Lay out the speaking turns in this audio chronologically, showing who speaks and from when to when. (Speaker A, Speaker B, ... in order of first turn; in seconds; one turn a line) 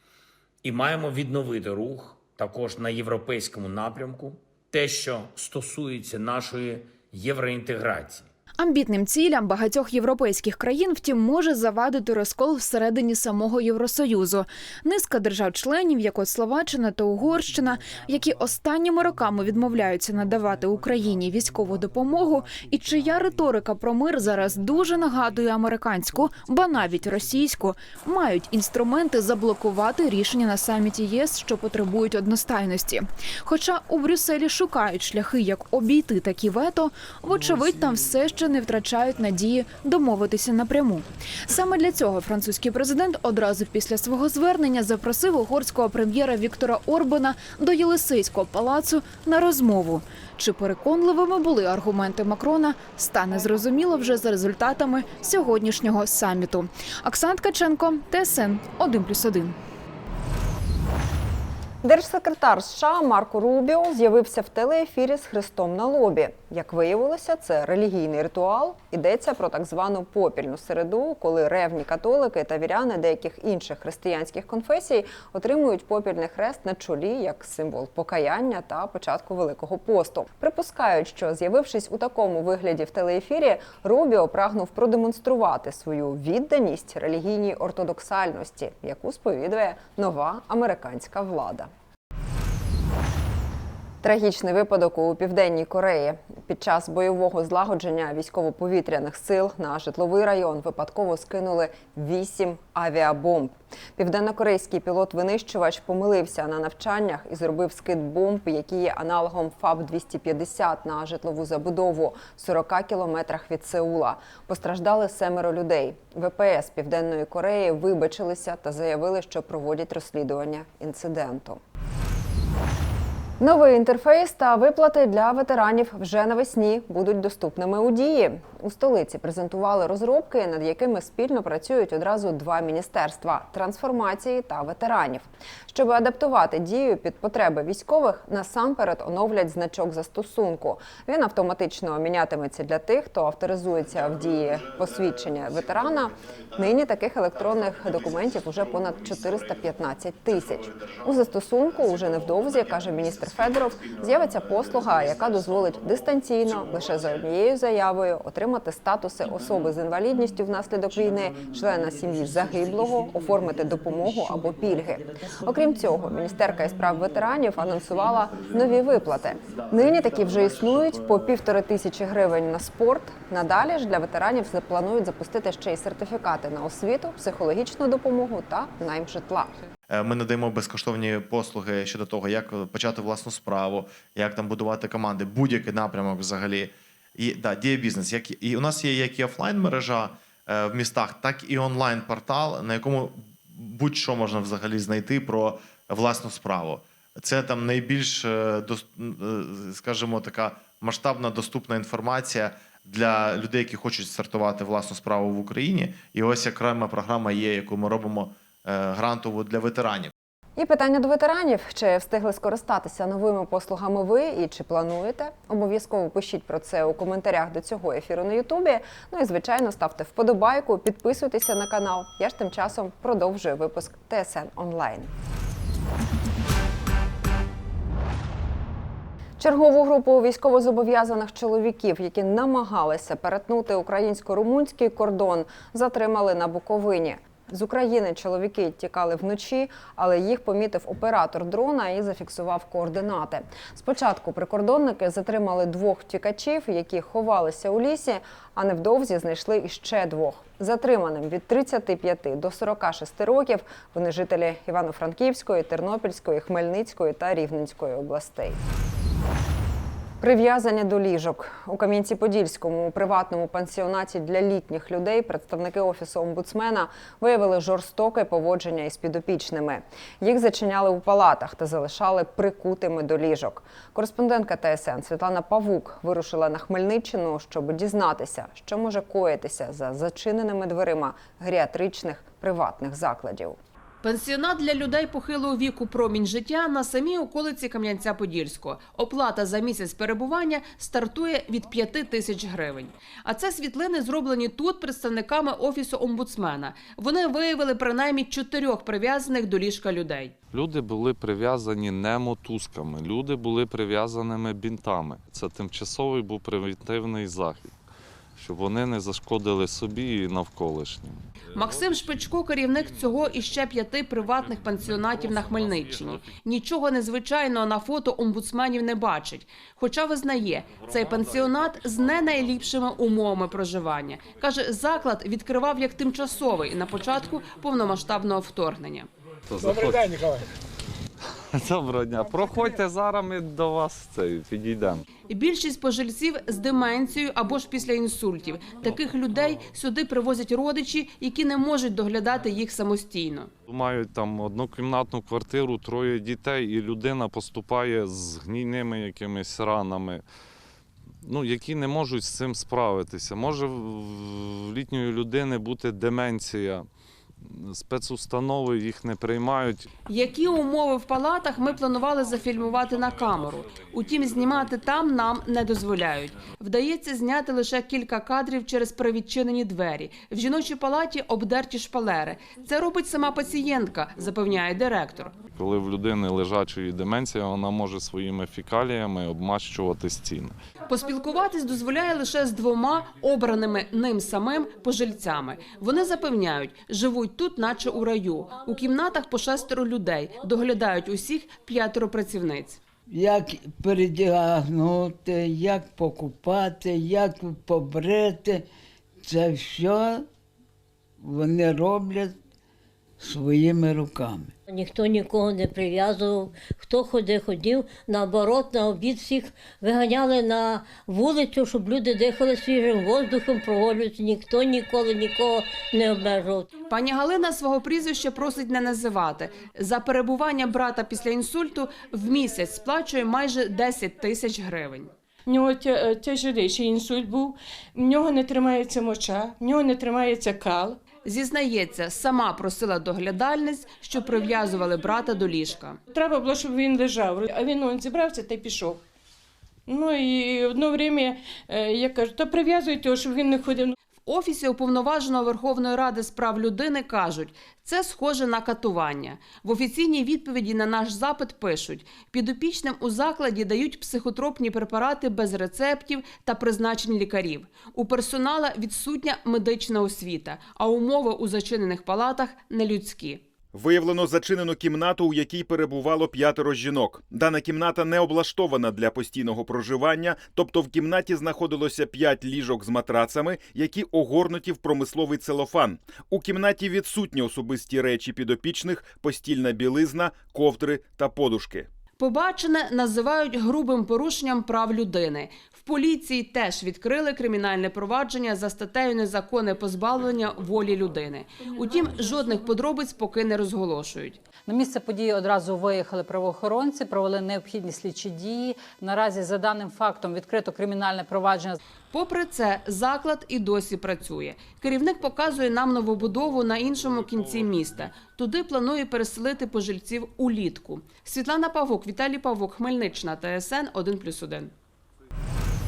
Speaker A: 0.6-8.2
Speaker B: 8.6-59.5
Speaker C: 61.8-91.7
Speaker C: 94.0-121.6
Speaker C: 123.4-179.5
Speaker D: 143.9-146.7
Speaker D: 147.3-149.8
Speaker D: 150.3-157.1
Speaker D: 179.9-210.1
Speaker C: 210.6-225.1
Speaker C: 229.4-258.6
Speaker C: 260.2-283.6
Speaker E: 284.0-300.3
Speaker F: 300.5-307.8
Speaker F: 308.4-311.7
Speaker E: 311.5-329.1
Speaker F: 314.8-316.2
Speaker F: 329.5-330.4
Speaker F: 331.5-335.0
Speaker E: 335.3-343.5
Speaker F: 343.6-350.2
Speaker F: 351.2-356.9
Speaker F: 357.4-359.9
Speaker E: 360.1-375.4
Speaker F: 375.5-380.6
Speaker E: 380.9-392.8
Speaker G: 393.1-398.7
Speaker G: 399.2-400.3
Speaker G: 401.2-402.4
Speaker G: 403.2-404.5
Speaker H: 404.7-416.7
Speaker E: 416.9-425.1
Speaker I: 425.5-431.0
Speaker E: 431.2-436.0
Speaker I: 436.1-439.0
Speaker I: 439.9-443.9
Speaker E: 444.3-463.4
Speaker J: 463.7-481.9
Speaker E: 482.2-494.4
Speaker K: 494.7-501.8
Speaker E: 502.1-514.7